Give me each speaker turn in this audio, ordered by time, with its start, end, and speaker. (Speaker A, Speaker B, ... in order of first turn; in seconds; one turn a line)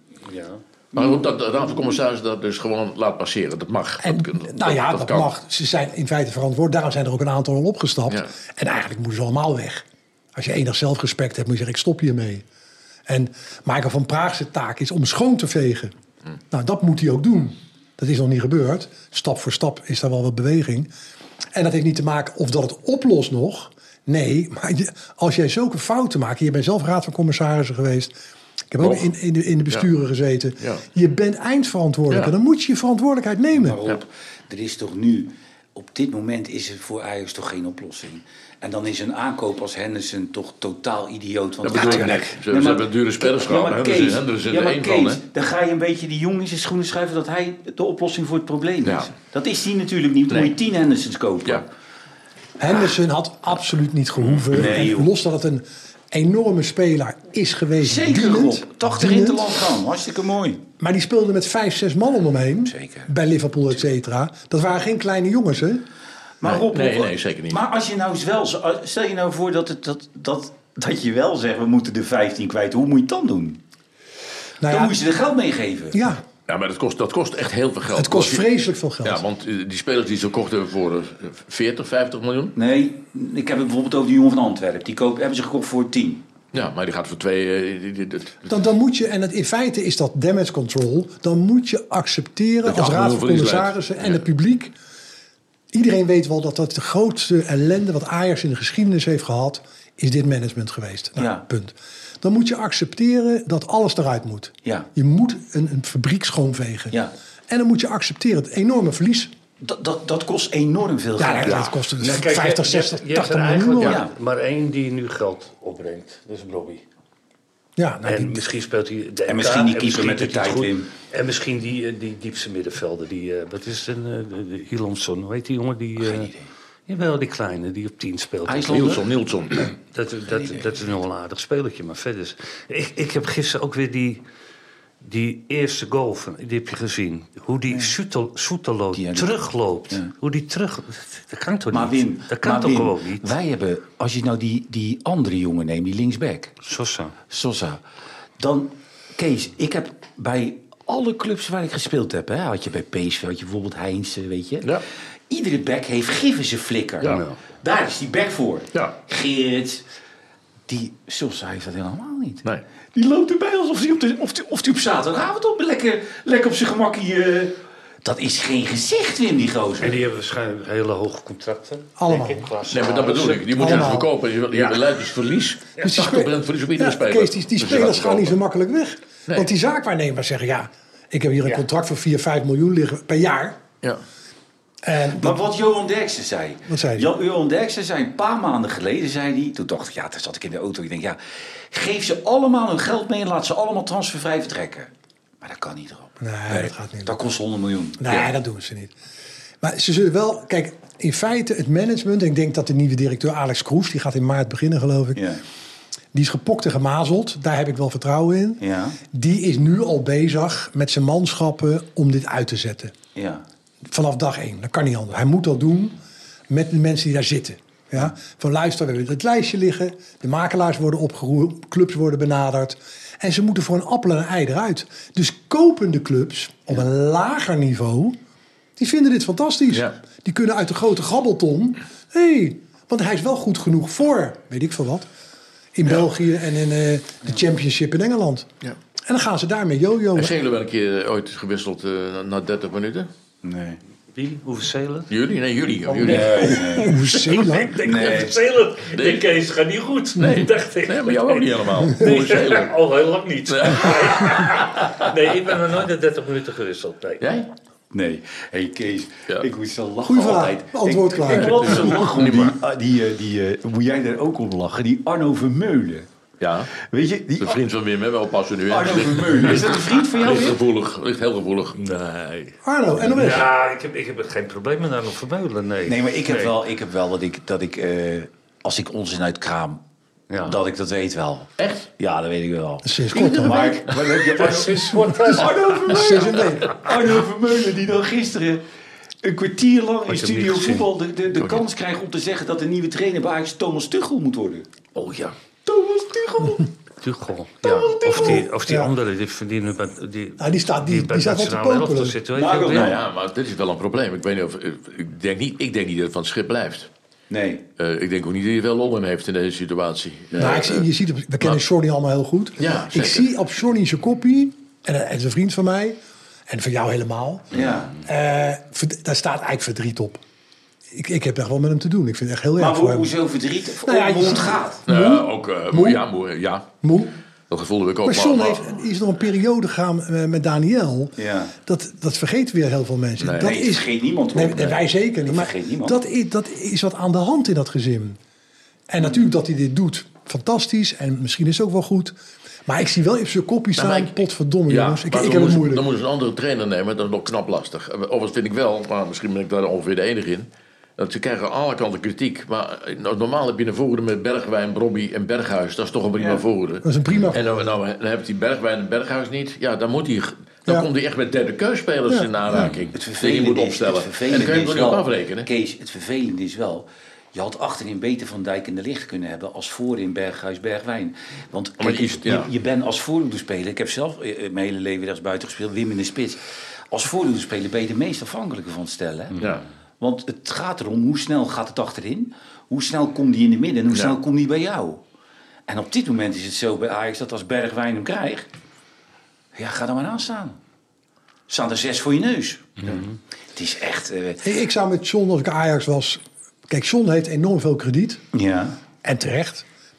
Speaker A: 0.2-0.6
Speaker B: 0.9-5.3
Speaker C: 0.9-1.2
Speaker D: 4.0-12.4
Speaker D: 13.1-15.9
Speaker D: 16.5-20.9
Speaker D: 21.5-28.1
Speaker D: 28.7-33.8
Speaker B: 28.8-29.1
Speaker C: 33.5-51.7
Speaker B: 41.6-45.2
Speaker B: 48.8-49.1
Speaker D: 52.6-59.5
Speaker C: 54.5-55.1
Speaker C: 57.8-60.6
Speaker D: 60.8-65.8
Speaker C: 62.6-63.1
Speaker C: 66.4-73.6
Speaker B: 66.4-67.6
Speaker D: 74.6-75.0
Speaker C: 74.7-76.0
Speaker D: 75.9-76.2
Speaker B: 76.5-78.5
Speaker D: 77.9-79.2
Speaker B: 79.0-82.5
Speaker C: 82.6-86.2
Speaker B: 86.5-88.5
Speaker D: 88.5-94.7
Speaker B: 92.7-94.2
Speaker D: 95.7-107.0
Speaker C: 101.2-101.5
Speaker C: 104.6-104.9
Speaker D: 107.5-109.3
Speaker C: 109.6-111.7
Speaker D: 111.2-114.0
Speaker A: 112.0-116.8
Speaker C: 113.8-114.1
Speaker D: 117.8-118.4
Speaker A: 118.0-126.3
Speaker C: 119.3-120.9
Speaker C: 126.0-126.5
Speaker A: 126.9-129.1
Speaker C: 128.5-129.1
Speaker B: 128.7-129.6
Speaker A: 129.6-134.2
Speaker C: 130.3-130.7
Speaker A: 135.0-143.3
Speaker C: 138.9-140.1
Speaker C: 141.7-146.6
Speaker A: 146.6-147.2
Speaker C: 147.3-147.8
Speaker C: 148.4-154.8
Speaker C: 155.3-159.9
Speaker A: 157.0-157.4
Speaker C: 160.7-162.4
Speaker C: 162.9-170.0
Speaker A: 169.8-173.9
Speaker D: 172.0-172.5
Speaker B: 172.7-178.3
Speaker D: 173.6-174.1
Speaker D: 175.8-183.6
Speaker D: 184.8-185.4
Speaker C: 185.1-191.2
Speaker D: 186.7-187.1
Speaker C: 191.7-198.3
Speaker D: 196.2-197.1
Speaker D: 198.0-198.9
Speaker D: 199.6-205.3
Speaker C: 205.2-205.4
Speaker D: 206.1-212.9
Speaker C: 208.6-209.0
Speaker C: 213.2-213.4
Speaker D: 213.9-216.0
Speaker D: 216.5-228.2
Speaker D: 228.8-235.1
Speaker D: 235.8-238.5
Speaker D: 239.1-240.3
Speaker B: 240.2-243.1
Speaker C: 243.4-243.8
Speaker A: 244.1-245.1
Speaker B: 245.1-246.6
Speaker A: 245.9-257.2
Speaker C: 245.9-247.0
Speaker D: 246.3-248.0
Speaker C: 247.8-248.4
Speaker B: 248.9-249.3
Speaker B: 250.2-252.8
Speaker D: 251.9-252.3
Speaker B: 253.5-255.1
Speaker B: 257.2-257.5
Speaker C: 257.9-266.1
Speaker D: 260.1-261.9
Speaker B: 261.4-262.6
Speaker B: 266.4-266.7
Speaker C: 266.7-267.6
Speaker B: 267.4-271.8
Speaker C: 268.7-270.6
Speaker A: 271.8-272.6
Speaker D: 272.6-273.5
Speaker A: 273.1-276.6
Speaker C: 275.9-279.8
Speaker A: 280.3-280.6
Speaker C: 280.4-288.6
Speaker B: 281.6-281.9
Speaker D: 282.8-283.8
Speaker A: 283.3-286.7
Speaker D: 285.1-286.8
Speaker C: 289.2-296.7
Speaker A: 290.1-290.9
Speaker A: 297.0-303.0
Speaker C: 297.6-298.5
Speaker D: 298.1-298.9
Speaker D: 300.4-302.2
Speaker C: 302.3-303.1
Speaker B: 302.7-306.9
Speaker C: 307.3-307.6
Speaker B: 307.8-310.9
Speaker D: 310.4-316.0
Speaker B: 312.6-313.3
Speaker D: 316.5-320.2
Speaker C: 317.5-318.0
Speaker D: 320.9-323.1
Speaker C: 322.6-324.8
Speaker D: 323.8-326.0
Speaker B: 324.9-326.7
Speaker D: 326.8-327.1
Speaker B: 327.5-328.8
Speaker D: 328.0-338.2
Speaker C: 331.2-331.5
Speaker B: 333.2-333.6
Speaker C: 333.4-336.0
Speaker D: 338.9-342.1
Speaker D: 342.7-345.9
Speaker B: 343.8-344.1
Speaker B: 344.7-365.5
Speaker D: 356.8-357.4
Speaker D: 362.1-362.7
Speaker C: 362.9-379.5
Speaker B: 371.8-372.5
Speaker B: 379.4-379.6
Speaker C: 380.0-385.0
Speaker C: 385.7-388.5
Speaker C: 389.6-390.6
Speaker C: 391.5-394.5
Speaker D: 394.4-398.2
Speaker C: 398.3-398.8
Speaker D: 399.0-399.7